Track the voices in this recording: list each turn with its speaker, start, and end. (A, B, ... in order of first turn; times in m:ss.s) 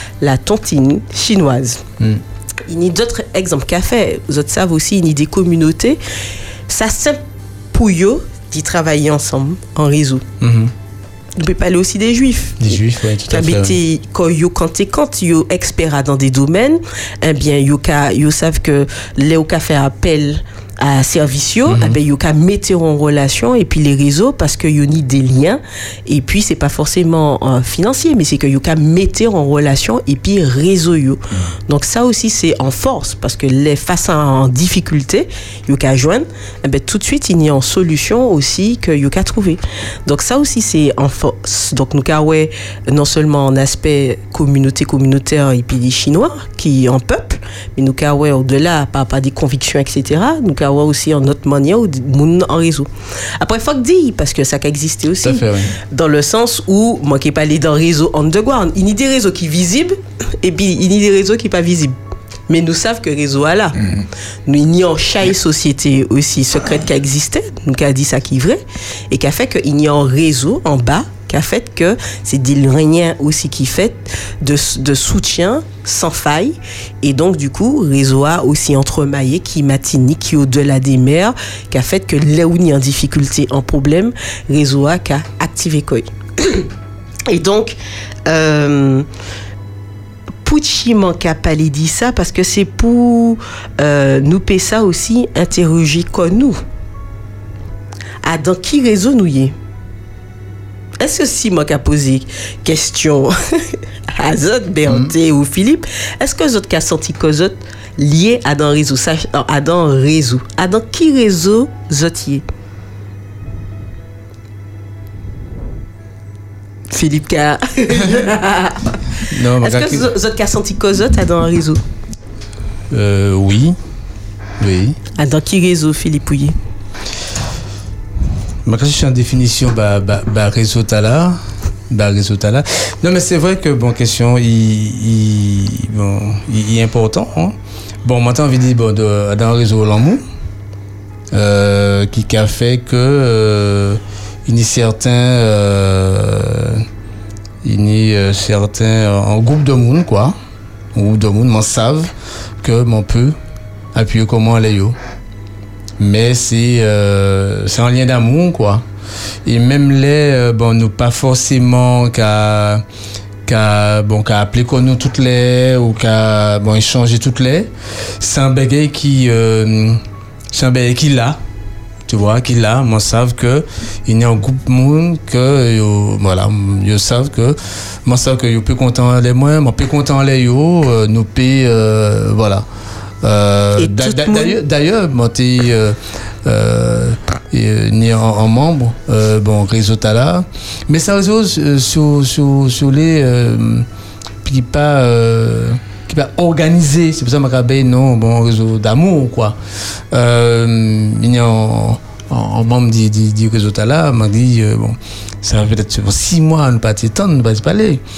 0:00.2-0:01.8 A
0:02.7-0:06.0 A
0:06.7-0:10.2 A
0:10.4-0:10.7 B
0:11.4-1:01.9 A
0:12.6-0:13.8 B
0:21.7-0:22.0 B
0:55.2-0:55.7 B
1:02.5-1:03.9 A
1:04.4-1:26.7 A
1:27.3-1:29.0 A
1:30.4-1:36.6 A
1:38.2-1:39.5 A
1:41.0-1:52.4 A
1:56.9-2:01.8 A
1:59.3-2:00.1 B
2:02.9-2:03.8 B
2:04.6-2:05.0 B
2:05.2-2:06.5 A
2:08.6-2:20.2 B
2:21.3-2:26.8 B
2:27.6-2:30.3 B
2:30.9-2:32.1 B
2:32.6-2:33.4 B
2:33.9-2:35.0 B
2:36.0-2:38.8 B
2:39.4-2:42.8 B
2:43.5-2:50.0 B
2:50.5-2:51.4 B
2:52.0-3:02.6 B
3:03.2-3:13.8 B
3:03.8-3:04.6 A
3:14.4-3:19.6 B
3:20.1-3:28.0 B